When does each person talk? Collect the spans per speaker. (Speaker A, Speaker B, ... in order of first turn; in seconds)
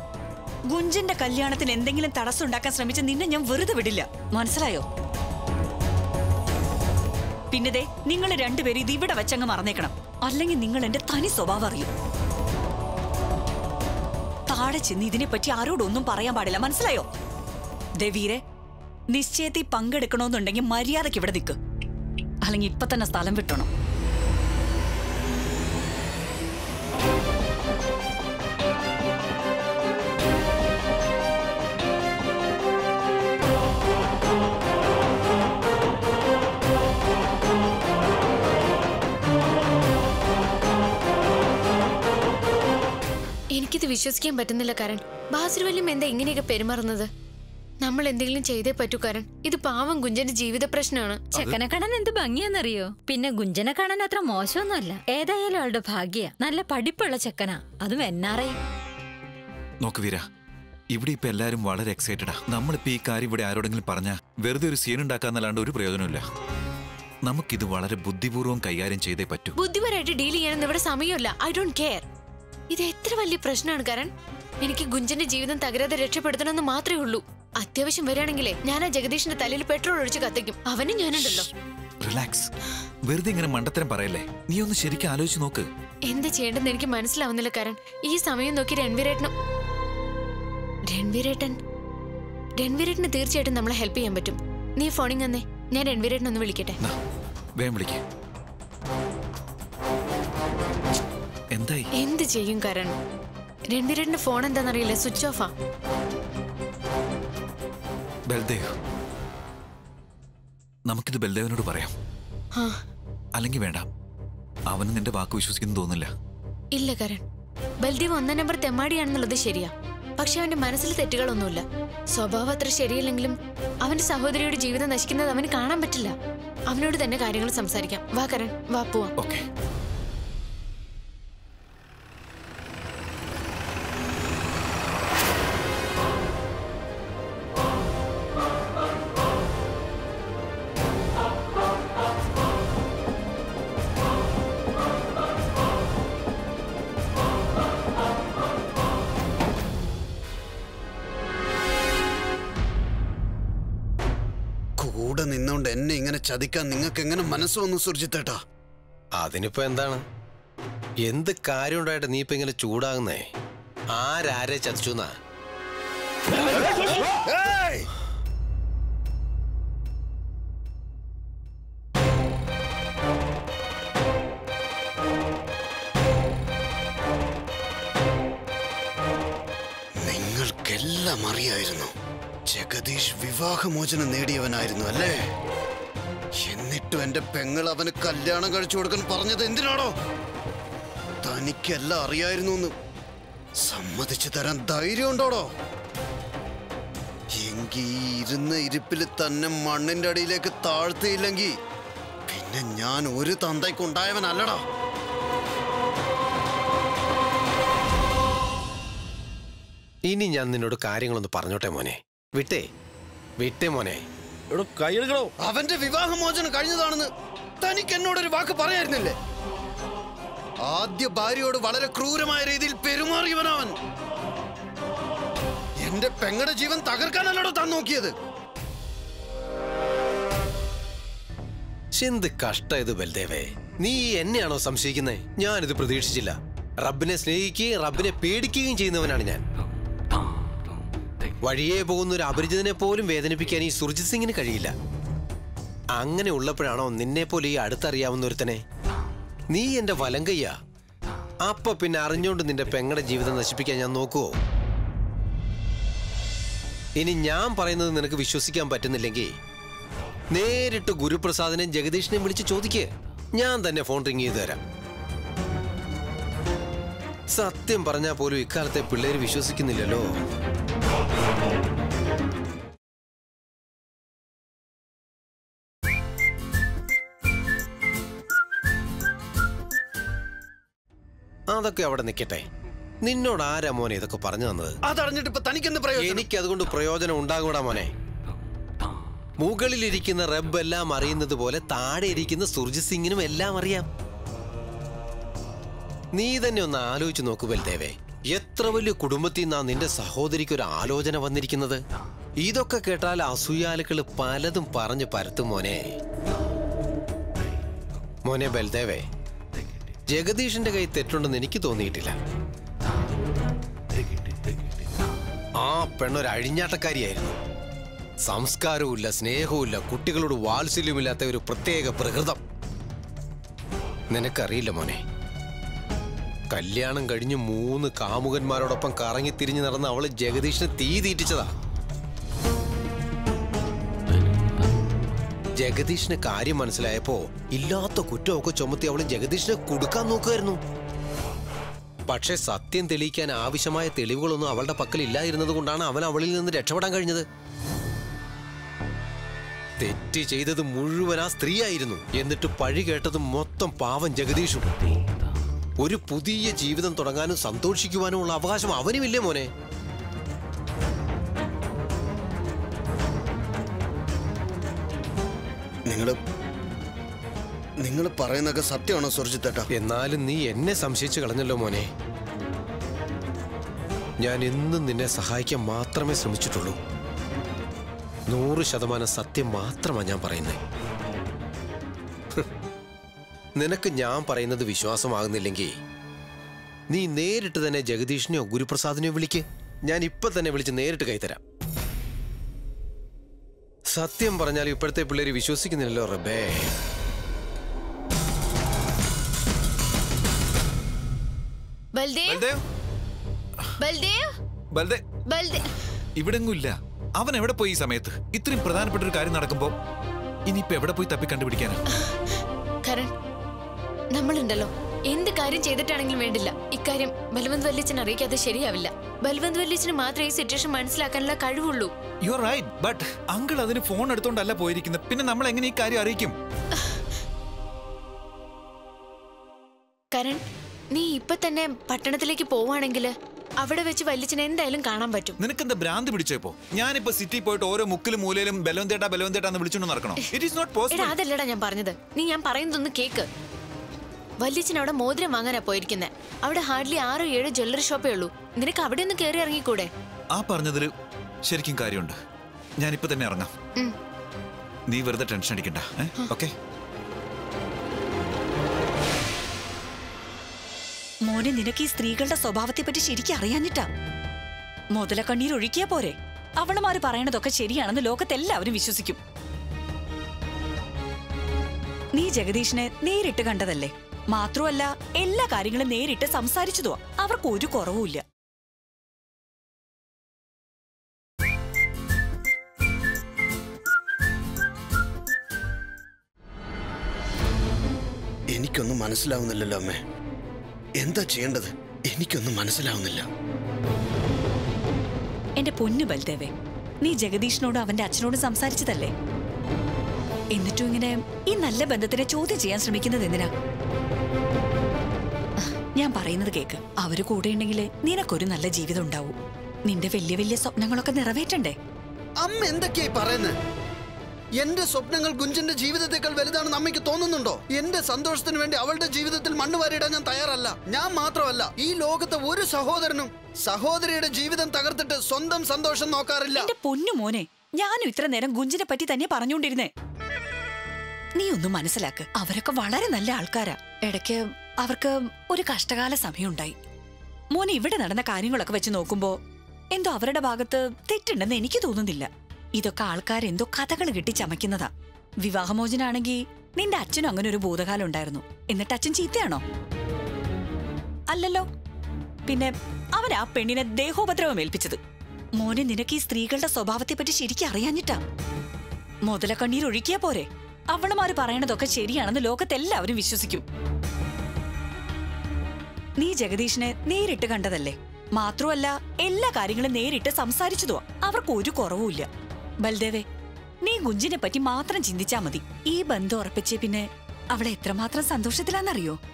Speaker A: 0.7-4.9, 7.5-11.9, 14.5-17.1, 18.0-18.4, 19.1-21.6, 22.5-23.7, 461.3-463.9, 464.9-469.2, 472.2-478.2, 495.6-499.1, 500.6-503.5, 505.6-511.8, 526.5-529.9, 531.4-536.8, 537.5-539.4, 539.9-544.9, 545.4-549.6, 551.3-551.7, 552.5-555.0, 555.6-558.2, 559.3-563.6, 566.2-572.3, 572.8-573.3, 573.8-579.2
Speaker B: 43.5-47.1, 47.8-51.3, 69.6-72.0, 72.7-81.5, 86.1-89.3, 90.9-91.6, 92.6-96.8, 102.0-102.9, 103.7-105.5, 112.5-112.8, 116.7-117.2, 117.8-126.1, 126.7-129.1, 402.0-402.5, 403.8-404.3, 405.3-405.7, 411.9-412.3, 412.9-413.1, 414.1-421.9, 426.7-427.0, 430.1-435.4, 440.9-443.3, 444.4-449.9
Speaker C: 51.4-58.6
Speaker D: 59.8-60.2, 60.9-66.2, 67.3-69.5, 82.0-82.5, 83.1-85.7, 97.6-98.0, 101.5-101.9, 108.3-108.7, 110.9-111.9, 113.4-113.9, 114.7-116.1, 129.2-129.4, 402.3-402.6, 404.8-405.0, 406.2-409.7, 410.5-411.8, 422.2-426.4, 435.4-441.2, 450.4-450.9, 451.5-452.2, 452.8-453.5, 454.9-456.5
Speaker E: 154.8-158.4, 166.4-167.9, 180.0-181.9, 182.5-185.2, 186.4-189.9, 191.2-192.7, 193.7-195.5, 197.4-201.5, 202.3-204.6, 215.4-217.1, 217.6-219.2, 220.7-223.7, 225.8-228.1, 284.9-286.2, 365.9-366.2, 367.8-369.7, 488.5-490.0, 491.0-493.2, 512.4-513.5, 514.6-526.7
Speaker F: 159.2-160.0, 161.1-163.2, 163.9-165.1, 210.1-212.6, 213.4-215.3, 232.0-239.4, 241.4-244.7, 246.0-248.6, 249.5-250.5, 251.4-254.3, 257.0-259.3, 260.3-264.6, 267.3-270.1, 281.5-282.4, 283.0-284.8, 286.0-287.9, 289.4-293.9, 296.2-301.8, 302.4-305.9, 308.3-309.0, 310.1-312.1, 315.6-317.4, 318.3-322.4, 324.1-325.0, 326.5-331.5, 335.6-340.6, 342.1-347.2, 349.8-354.8, 355.8-359.5, 369.7-371.9, 374.2-376.8, 378.3-380.6, 383.6-385.7, 386.9-391.4, 393.9-396.7